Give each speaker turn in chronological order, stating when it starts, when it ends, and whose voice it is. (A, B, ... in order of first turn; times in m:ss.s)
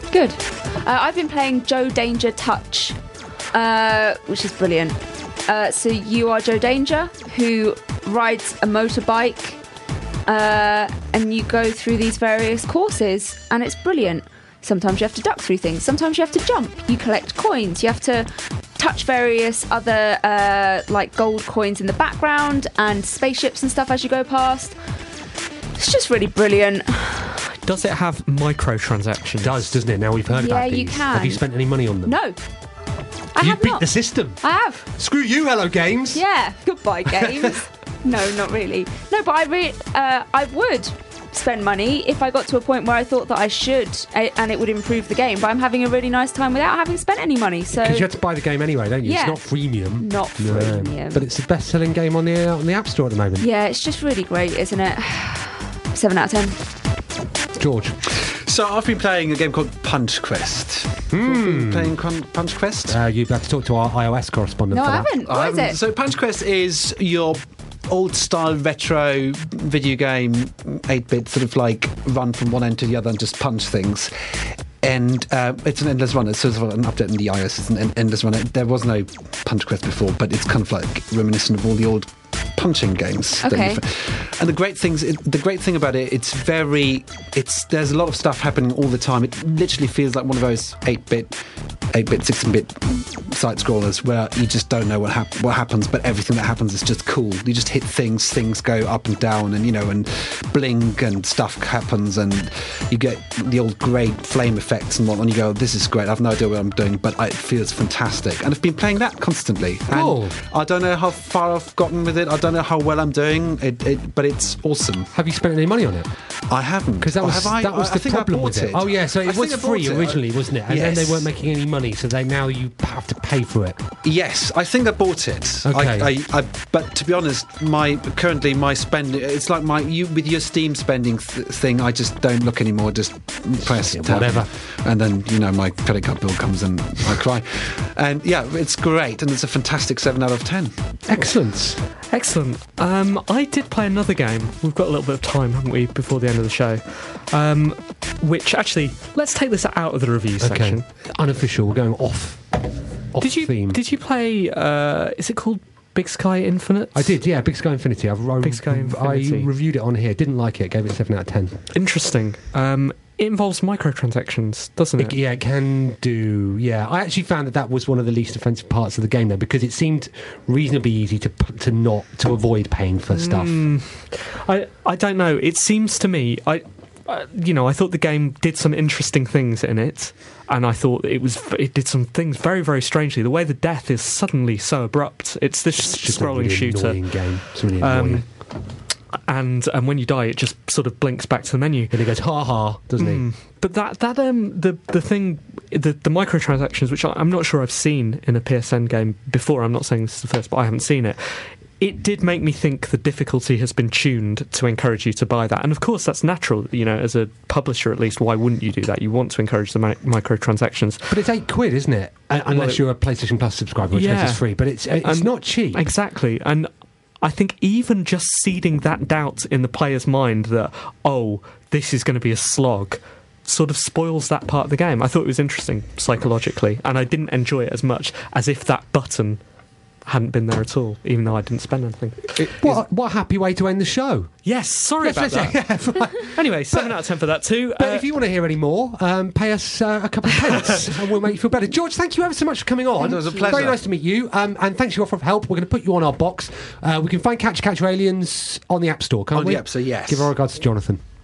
0:00.1-0:03.0 A
0:03.5-0:09.6 A
0:10.3-0:24.8 A
0:25.8-0:27.4 A
0:27.6-0:29.8 B
0:29.4-0:32.2 C
0:30.3-0:31.4 A
0:32.0-0:32.4 A
0:33.4-0:33.9 A
0:33.4-0:34.4 C
0:34.4-0:34.9 A
0:34.9-0:36.2 C
0:36.1-0:48.1 A
0:37.1-0:37.6 C
0:47.7-0:53.5 C
0:49.0-0:49.4 A
0:50.0-0:51.3 A
0:53.4-0:56.6 A
0:57.6-0:58.0 C
0:58.1-1:03.0 D
1:01.1-1:02.0 C
1:02.9-1:05.1 C
1:04.7-1:05.8 A
1:05.2-1:31.4 D
1:23.4-1:23.8 A
1:31.9-1:55.1 D
1:49.9-1:50.4 C
1:55.1-1:56.1 C
1:56.5-2:01.3 D
1:57.0-2:03.8 C
2:04.0-2:20.7 D
2:05.6-2:06.1 C
2:13.6-2:14.5 C
2:21.1-2:21.8 C
2:22.1-2:30.8 B
2:30.4-2:32.5 C
2:33.1-2:33.8 C
2:33.2-2:37.1 B
2:36.9-2:41.6 C
2:38.4-2:39.5 B
2:41.7-2:45.2 B
2:45.0-2:53.5 C
2:53.1-3:07.0 B
3:05.7-3:08.2 C
3:07.8-3:08.3 B
3:09.3-3:12.0 B
3:11.9-3:13.3 C
3:13.0-3:31.2 B
3:31.1-3:35.9 C
3:32.5-3:32.8 B
3:33.9-3:36.7 B
3:37.2-3:49.4 B
3:50.1-3:52.5 B
3:52.4-3:52.8 D
3:52.6-3:54.3 C
3:54.4-3:55.6 B
3:55.0-3:57.0 C
3:56.2-3:58.1 B
3:57.8-4:11.0 C
4:00.4-4:00.8 B
4:03.0-4:03.8 D
4:03.2-4:03.5 A
4:09.3-4:10.3 D